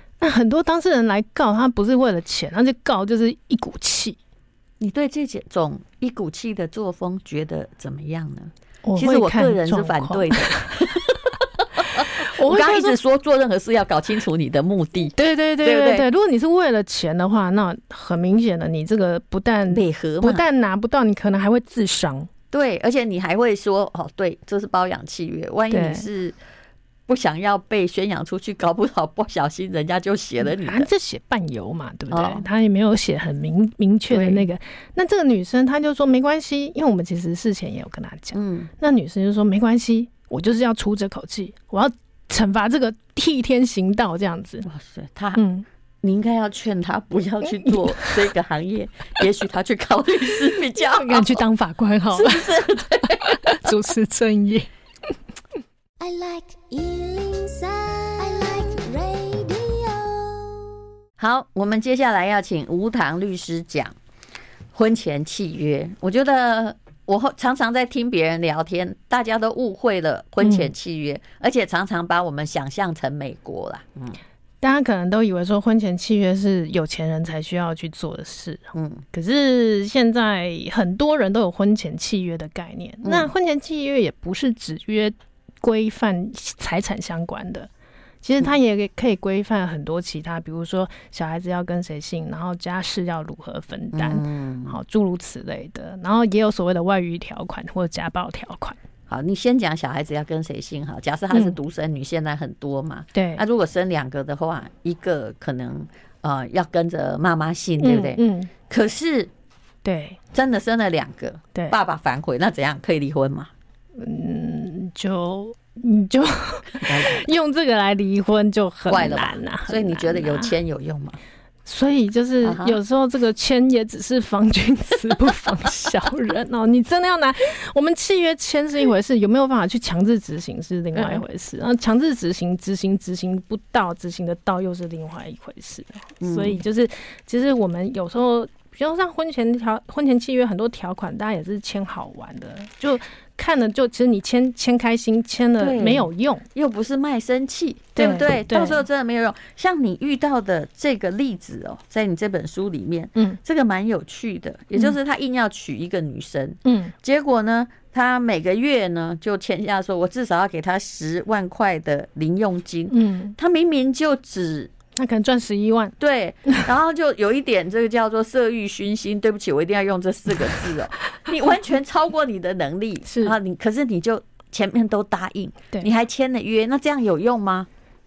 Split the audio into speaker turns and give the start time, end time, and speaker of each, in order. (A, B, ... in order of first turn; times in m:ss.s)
0:00.2-0:04.2 A
0:04.8-0:16.1 B
0:08.8-0:10.8 A
0:12.0-0:13.0 A
0:15.2-0:22.3 A
0:19.7-0:20.4 B
0:22.5-0:26.4 B
0:25.7-0:26.1 A
0:27.1-0:30.9 B
0:30.4-0:44.7 A
0:32.1-0:32.4 B
0:34.1-0:34.4 B
0:38.3-0:38.7 B
0:44.6-0:45.4 B
0:45.4-0:45.7 A
0:46.0-0:51.4 B
0:47.6-0:48.1 A
0:50.8-0:54.7 A
0:52.1-0:53.7 B
0:56.0-1:00.6 C
1:01.2-1:04.0 B
1:04.7-1:14.2 B
1:10.4-1:10.7 A
1:14.6-1:27.7 A
1:18.7-1:19.0 B
1:23.0-1:23.3 B
1:28.2-1:38.8 A
1:33.9-1:34.8 B
1:39.1-1:49.3 B
1:43.1-1:43.4 A
1:47.8-1:48.5 A
1:49.8-1:50.2 A
1:50.3-1:53.5 B
1:54.0-2:00.6 A
1:56.8-1:57.3 B
1:58.9-2:01.2 B
2:01.7-2:26.5 A
2:02.4-2:02.8 B
2:11.0-2:11.2 B
2:16.2-2:16.6 B
2:25.6-2:44.7 B
2:28.0-2:28.8 A
2:36.6-2:36.9 A
2:42.9-2:43.4 A
2:45.0-2:46.0 A
2:46.0-2:57.7 B
2:53.1-2:53.4 A